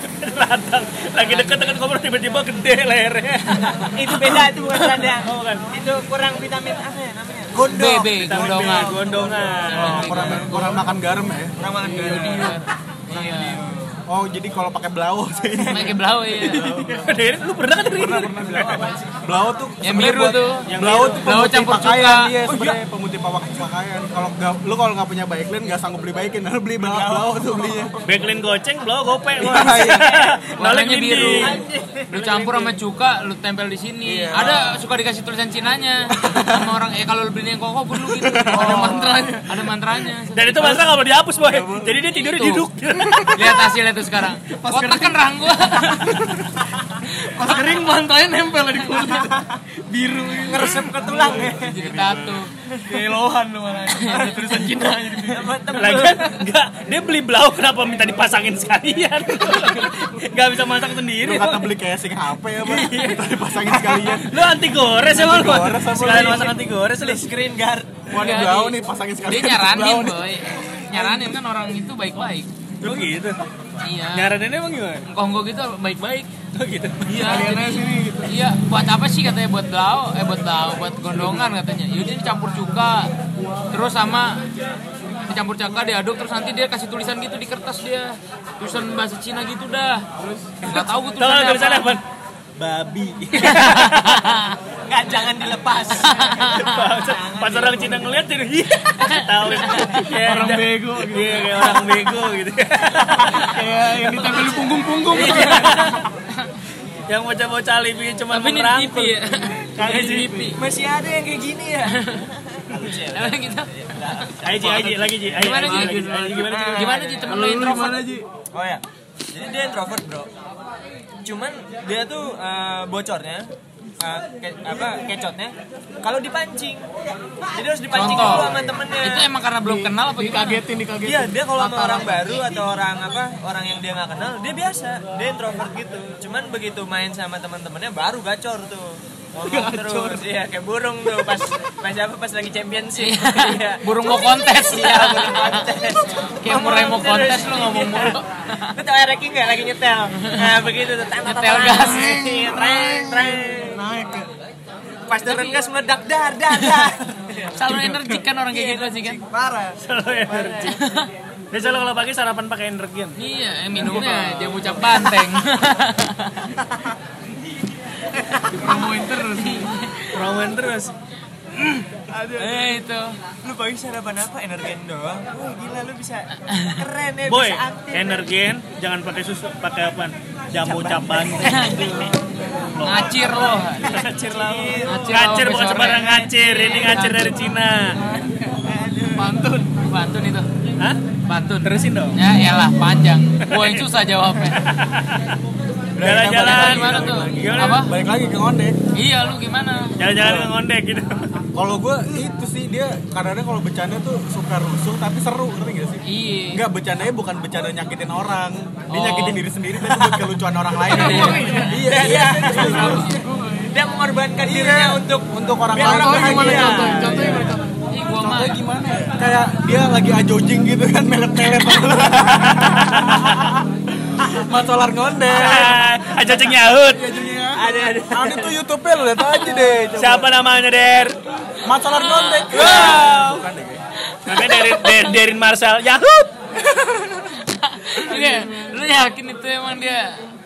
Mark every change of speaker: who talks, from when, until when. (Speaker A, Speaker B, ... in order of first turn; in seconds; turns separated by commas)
Speaker A: 0.1-5.6, Speaker B: 1.2-1.8, Speaker B: 3.5-3.9, Speaker C: 3.9-10.7, Speaker B: 7.5-9.0, Speaker A: 8.1-10.4, Speaker B: 9.7-10.8, Speaker D: 9.7-11.6, Speaker C: 11.6-14.0, Speaker B: 11.8-13.6, Speaker D: 14.1-17.1, Speaker C: 15.6-15.9, Speaker B: 15.7-16.7, Speaker E: 16.5-17.0, Speaker A: 16.5-18.8, Speaker D: 17.9-28.0, Speaker C: 18.5-19.0, Speaker B: 19.8-22.4, Speaker A: 20.7-21.2, Speaker C: 26.8-28.1, Speaker A: 28.1-31.6, Speaker D: 29.4-30.3, Speaker B: 30.6-40.9, Speaker C: 31.3-32.7, Speaker D: 34.0-34.8, Speaker D: 36.2-36.7, Speaker D: 38.2-39.1, Speaker E: 38.5-39.7, Speaker A: 40.3-43.5, Speaker D: 41.4-42.0, Speaker B: 42.1-42.6, Speaker B: 43.3-46.3, Speaker E: 44.5-46.3, Speaker E: 47.0-50.9, Speaker C: 50.4-51.7, Speaker D: 50.8-52.5, Speaker B: 51.4-52.5, Speaker C: 52.7-53.0, Speaker E: 52.8-55.6, Speaker B: 54.0-54.3, Speaker C: 54.1-54.5, Speaker C: 55.2-56.4, Speaker A: 55.7-61.7, Speaker D: 61.2-64.4, Speaker A: 62.6-67.3, Speaker D: 65.0-66.5, Speaker C: 66.1-68.0, Speaker D: 68.1-71.4, Speaker B: 68.1-72.5, Speaker A: 72.8-73.4, Speaker B: 73.8-74.3, Speaker A: 74.1-75.0, Speaker B: 75.0-76.3, Speaker A: 76.5-77.1, Speaker B: 77.0-83.1, Speaker E: 77.1-78.3, Speaker B: 83.7-84.4, Speaker B: 85.2-92.0, Speaker E: 90.2-90.5, Speaker A: 90.6-92.0, Speaker A: 92.6-94.3, Speaker B: 93.4-94.6, Speaker C: 94.9-98.1, Speaker B: 96.0-96.7, Speaker A: 96.5-103.6, Speaker B: 98.9-100.0, Speaker E: 100.1-101.8, Speaker E: 103.4-106.0, Speaker A: 105.1-106.0, Speaker B: 105.2-105.9, Speaker A: 107.1-109.2, Speaker B: 108.3-110.6, Speaker A: 109.7-110.5, Speaker C: 110.5-117.5, Speaker B: 112.0-112.3, Speaker B: 113.1-114.3, Speaker A: 114.4-117.0, Speaker B: 115.4-118.1, Speaker E: 115.7-116.1, Speaker E: 117.2-118.2, Speaker C: 118.5-120.3, Speaker C: 121.2-126.9, Speaker C: 127.5-129.3, Speaker B: 127.9-130.6, Speaker D: 128.0-128.8, Speaker E: 129.6-132.7, Speaker C: 131.0-148.2, Speaker E: 139.4-140.2, Speaker B: 143.0-145.7, Speaker B: 146.4-148.8, Speaker C: 148.7-153.9, Speaker B: 150.2-150.6, Speaker B: 151.2-152.5, Speaker E: 151.8-154.3, Speaker C: 155.1-157.6, Speaker B: 155.2-155.6, Speaker B: 157.5-159.2, Speaker C: 158.4-160.8, Speaker A: 159.8-160.8, Speaker B: 160.7-161.1, Speaker A: 161.5-163.2, Speaker B: 163.2-166.6, Speaker A: 163.8-164.8, Speaker C: 166.7-166.9, Speaker C: 168.1-168.9, Speaker E: 168.5-169.7, Speaker B: 168.7-170.2, Speaker A: 170.1-170.9, Speaker C: 172.1-172.8, Speaker B: 172.4-173.2, Speaker C: 173.4-178.3, Speaker B: 176.5-176.8, Speaker A: 177.3-181.7, Speaker C: 180.6-185.0, Speaker B: 181.4-182.1, Speaker A: 182.7-188.0, Speaker B: 182.8-183.9, Speaker B: 184.8-187.4, Speaker C: 186.4-186.9, Speaker C: 188.5-189.4, Speaker E: 189.2-189.7, Speaker B: 189.8-190.5, Speaker B: 191.3-194.6, Speaker A: 191.6-192.2, Speaker A: 193.4-193.9, Speaker A: 194.5-195.4, Speaker D: 195.9-198.8, Speaker A: 196.0-197.8, Speaker B: 196.4-197.9, Speaker B: 198.9-200.0, Speaker A: 200.0-201.2, Speaker D: 200.2-200.5, Speaker D: 201.5-213.1, Speaker B: 206.1-206.6, Speaker B: 208.9-209.4, Speaker C: 209.8-210.3, Speaker C: 210.9-213.1, Speaker B: 210.9-211.7, Speaker E: 211.0-211.8, Speaker E: 212.4-213.7, Speaker C: 213.7-217.5, Speaker D: 214.4-217.6, Speaker E: 215.8-217.7, Speaker B: 217.9-218.6, Speaker D: 218.2-225.8, Speaker A: 222.4-223.4, Speaker A: 225.3-227.1, Speaker D: 226.8-230.3, Speaker C: 227.5-228.5, Speaker A: 229.9-231.2, Speaker D: 231.6-233.8, Speaker B: 231.7-233.0, Speaker A: 232.5-233.5, Speaker B: 234.1-235.1, Speaker A: 234.2-236.3, Speaker B: 237.2-240.2, Speaker E: 238.0-238.8